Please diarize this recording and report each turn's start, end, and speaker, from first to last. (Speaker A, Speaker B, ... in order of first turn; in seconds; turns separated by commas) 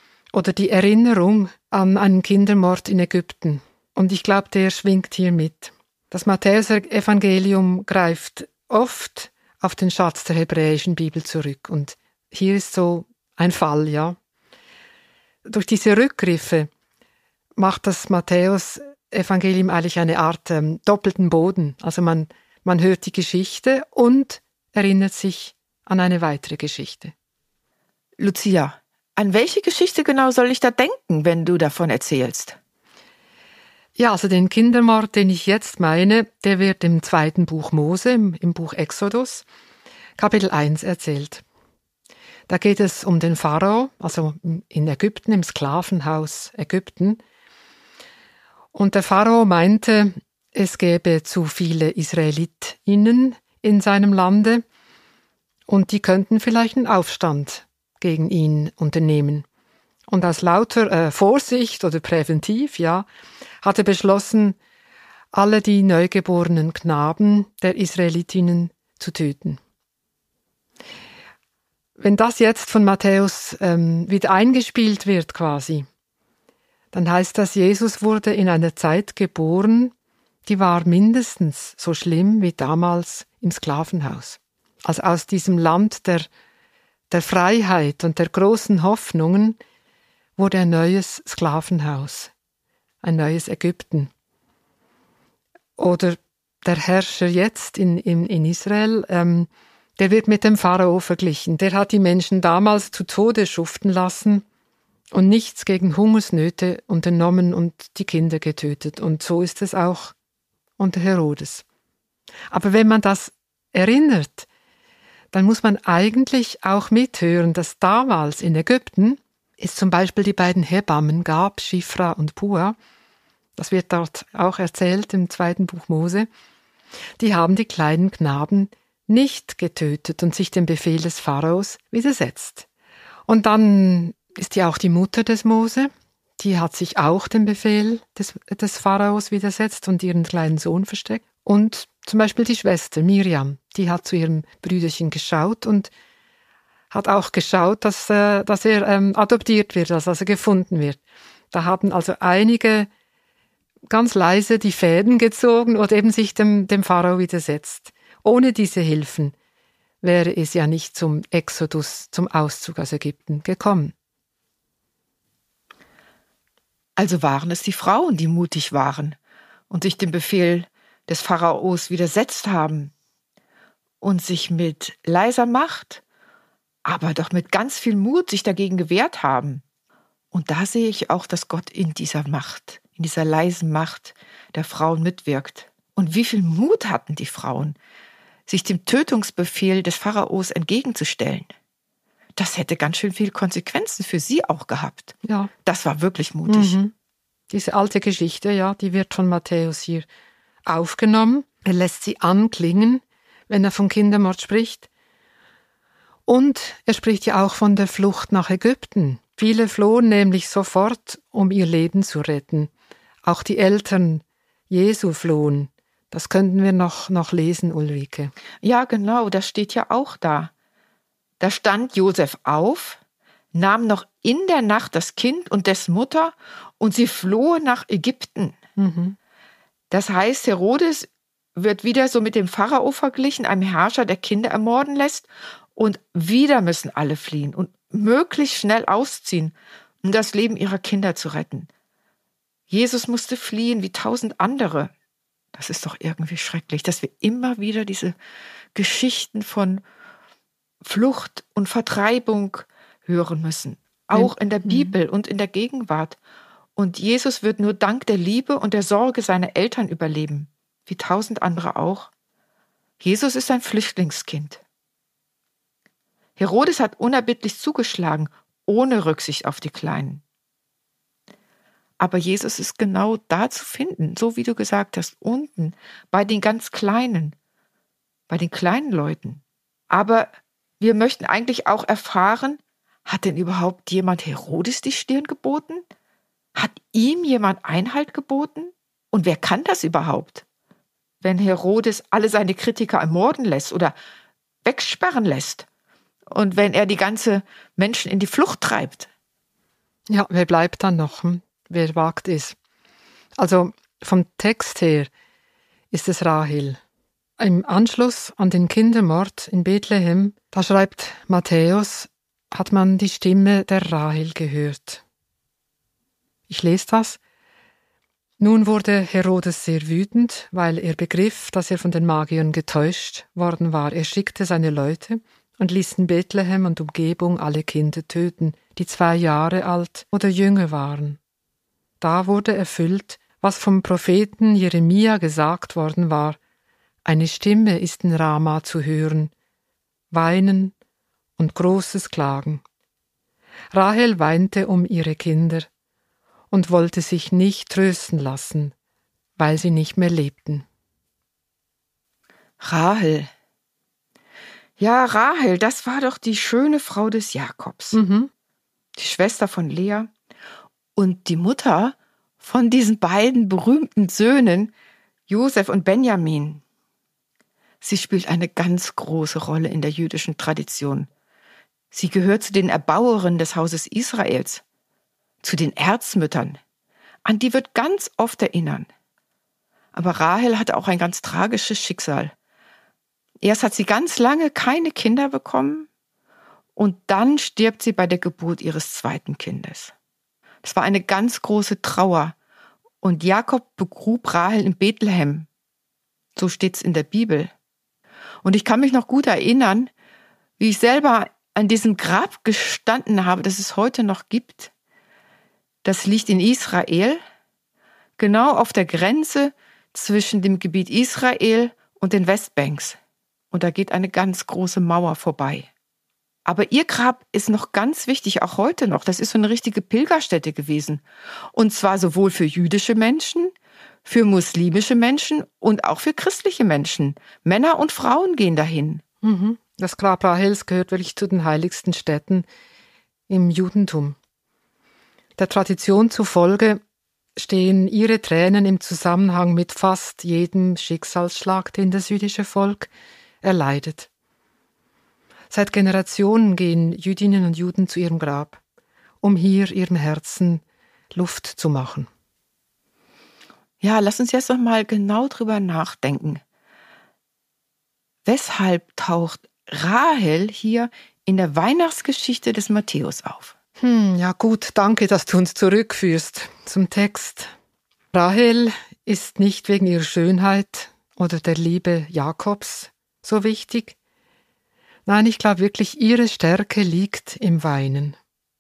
Speaker A: 0.3-14.2, Speaker A: 15.4-16.7, Speaker A: 17.6-27.1, Speaker B: 28.2-32.6, Speaker A: 34.0-39.5, Speaker A: 40.2-41.4, Speaker A: 42.5-47.2, Speaker A: 48.7-54.6, Speaker A: 55.7-59.5, Speaker A: 60.1-63.1, Speaker A: 63.6-64.6, Speaker A: 65.3-69.6, Speaker A: 72.0-75.9, Speaker A: 76.9-79.9, Speaker A: 80.5-86.3, Speaker A: 87.1-89.6, Speaker A: 90.4-92.3, Speaker A: 93.0-94.1, Speaker A: 95.8-104.5, Speaker A: 105.1-110.1, Speaker A: 110.8-111.6, Speaker A: 112.5-114.5, Speaker A: 115.3-122.8, Speaker A: 123.6-126.3, Speaker A: 127.2-132.7, Speaker A: 133.3-145.9, Speaker A: 146.9-151.0, Speaker A: 151.5-152.9, Speaker A: 153.9-159.3, Speaker A: 160.0-163.9, Speaker B: 167.0-169.2, Speaker B: 169.7-172.9, Speaker B: 174.0-176.0, Speaker B: 176.8-179.6, Speaker B: 180.3-187.8, Speaker B: 188.5-191.5, Speaker B: 192.4-196.8, Speaker A: 195.2-195.5, Speaker A: 196.5-196.9, Speaker A: 197.5-200.1, Speaker A: 200.7-204.9, Speaker A: 206.3-212.7, Speaker A: 213.2-218.3, Speaker B: 218.6-220.5, Speaker B: 221.4-223.0, Speaker B: 223.5-228.6, Speaker A: 228.8-229.2, Speaker B: 229.9-241.7, Speaker B: 242.7-244.9, Speaker B: 245.6-248.2, Speaker B: 248.8-249.8, Speaker B: 250.8-256.2, Speaker A: 254.1-255.0, Speaker B: 256.8-262.1, Speaker B: 263.0-264.6, Speaker B: 266.4-270.2, Speaker B: 272.0-277.4, Speaker B: 278.3-285.8, Speaker B: 286.6-290.4, Speaker B: 291.2-293.9, Speaker B: 294.6-295.7, Speaker B: 296.3-299.1, Speaker A: 300.1-302.6, Speaker A: 303.4-305.1, Speaker A: 305.9-306.8, Speaker A: 307.4-315.0, Speaker A: 316.5-317.2, Speaker A: 318.4-331.2, Speaker A: 332.0-336.4, Speaker A: 337.1-339.3, Speaker A: 340.1-340.7, Speaker A: 341.4-342.6, Speaker A: 343.7-345.7, Speaker A: 346.5-348.7, Speaker A: 349.4-350.6, Speaker B: 352.6-353.3, Speaker B: 354.8-358.0, Speaker A: 357.9-358.3, Speaker B: 359.0-360.1, Speaker B: 361.0-364.7, Speaker B: 365.3-366.6, Speaker B: 367.8-371.1, Speaker B: 371.9-374.6, Speaker B: 375.4-376.6, Speaker B: 377.2-378.9, Speaker B: 379.9-382.3, Speaker B: 383.4-385.9, Speaker B: 386.8-389.9, Speaker B: 390.6-392.3, Speaker B: 393.0-395.5, Speaker B: 396.4-397.5, Speaker B: 398.4-399.9, Speaker B: 400.6-404.7, Speaker B: 405.8-407.2, Speaker B: 408.2-413.0, Speaker B: 413.5-415.7, Speaker B: 416.4-421.0, Speaker B: 421.5-423.5, Speaker B: 424.1-429.0, Speaker A: 429.2-432.5, Speaker A: 433.3-434.2, Speaker A: 435.4-436.8, Speaker A: 437.4-442.9, Speaker A: 443.4-444.1, Speaker A: 445.5-448.6, Speaker A: 449.2-452.1, Speaker B: 453.8-456.4, Speaker B: 458.2-463.5, Speaker A: 463.8-467.5, Speaker A: 468.1-474.0, Speaker A: 475.1-478.2